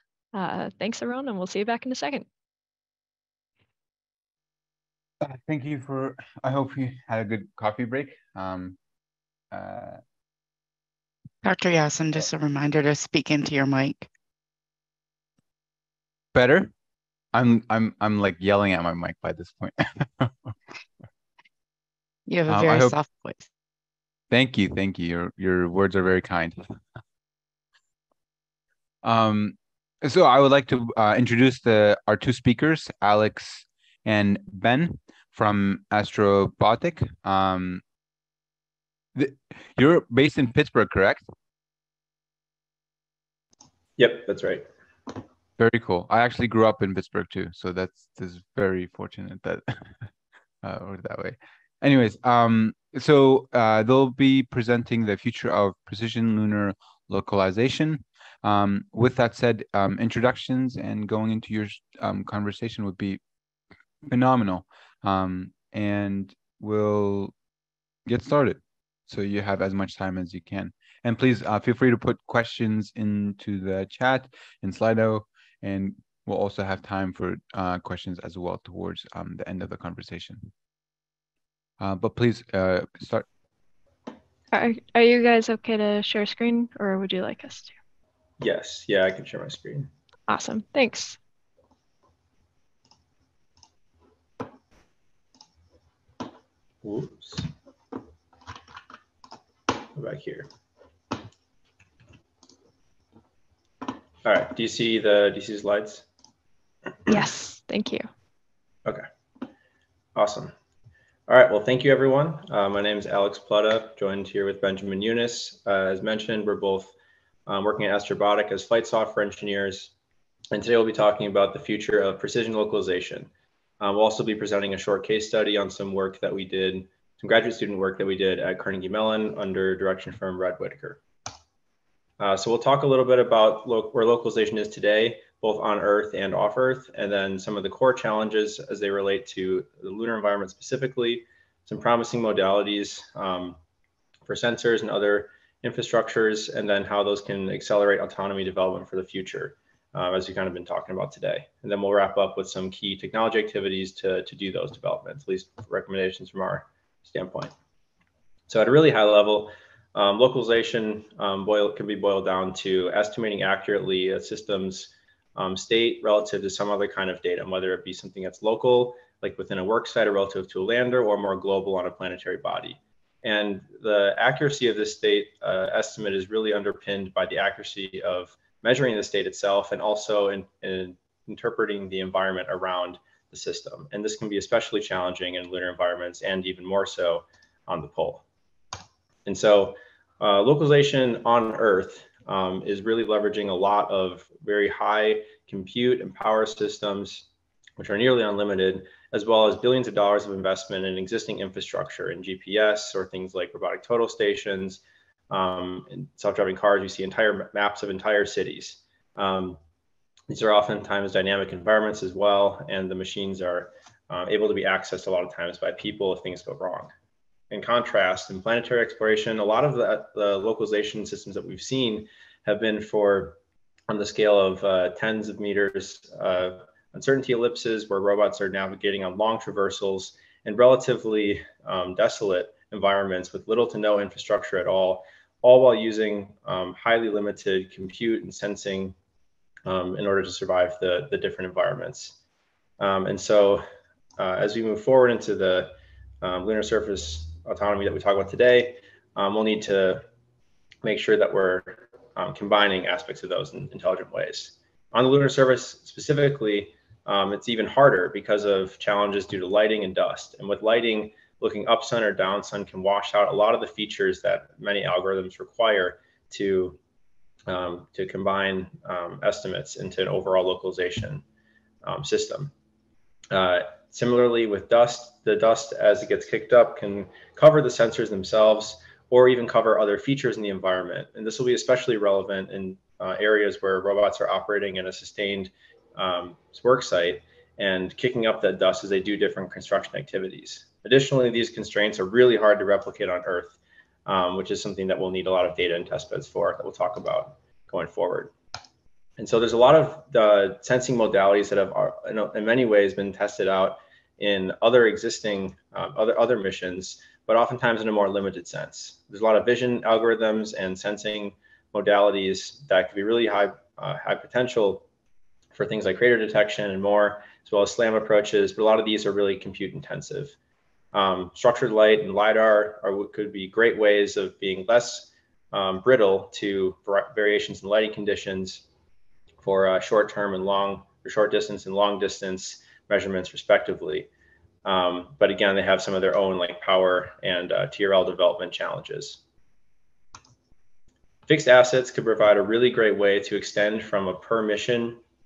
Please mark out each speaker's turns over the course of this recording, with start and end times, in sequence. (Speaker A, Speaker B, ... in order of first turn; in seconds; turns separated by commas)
Speaker A: 0.3-2.2, Speaker B: 5.2-8.8, Speaker B: 9.5-10.0, Speaker C: 11.4-14.1, Speaker B: 16.3-16.7, Speaker B: 17.3-20.5, Speaker C: 22.3-23.4, Speaker B: 22.5-22.9, Speaker B: 24.3-26.7, Speaker B: 29.0-37.8, Speaker B: 39.1-41.2, Speaker D: 44.0-44.7, Speaker B: 45.6-50.1, Speaker B: 50.6-63.2, Speaker B: 64.0-67.3, Speaker B: 68.0-80.5, Speaker B: 81.8-83.2, Speaker A: 84.5-87.7, Speaker D: 88.4-89.9, Speaker A: 90.3-91.2, Speaker D: 96.8-97.5, Speaker D: 99.9-100.5, Speaker D: 104.2-106.0, Speaker A: 107.1-108.1, Speaker D: 110.1-110.5, Speaker D: 111.3-116.9, Speaker D: 117.5-119.9, Speaker D: 120.5-131.0, Speaker D: 132.2-143.6, Speaker D: 144.2-157.5, Speaker D: 158.5-188.2, Speaker D: 189.2-209.6, Speaker D: 210.3-216.9, Speaker D: 217.5-238.9, Speaker D: 239.6-242.2, Speaker D: 242.8-243.6, Speaker D: 244.2-250.1, Speaker D: 250.8-266.8, Speaker D: 267.5-271.2, Speaker D: 271.8-272.5, Speaker D: 273.3-298.3, Speaker D: 299.2-314.9, Speaker D: 315.5-320.3, Speaker D: 320.9-328.6, Speaker D: 329.4-334.1, Speaker D: 334.6-339.2, Speaker D: 341.3-345.0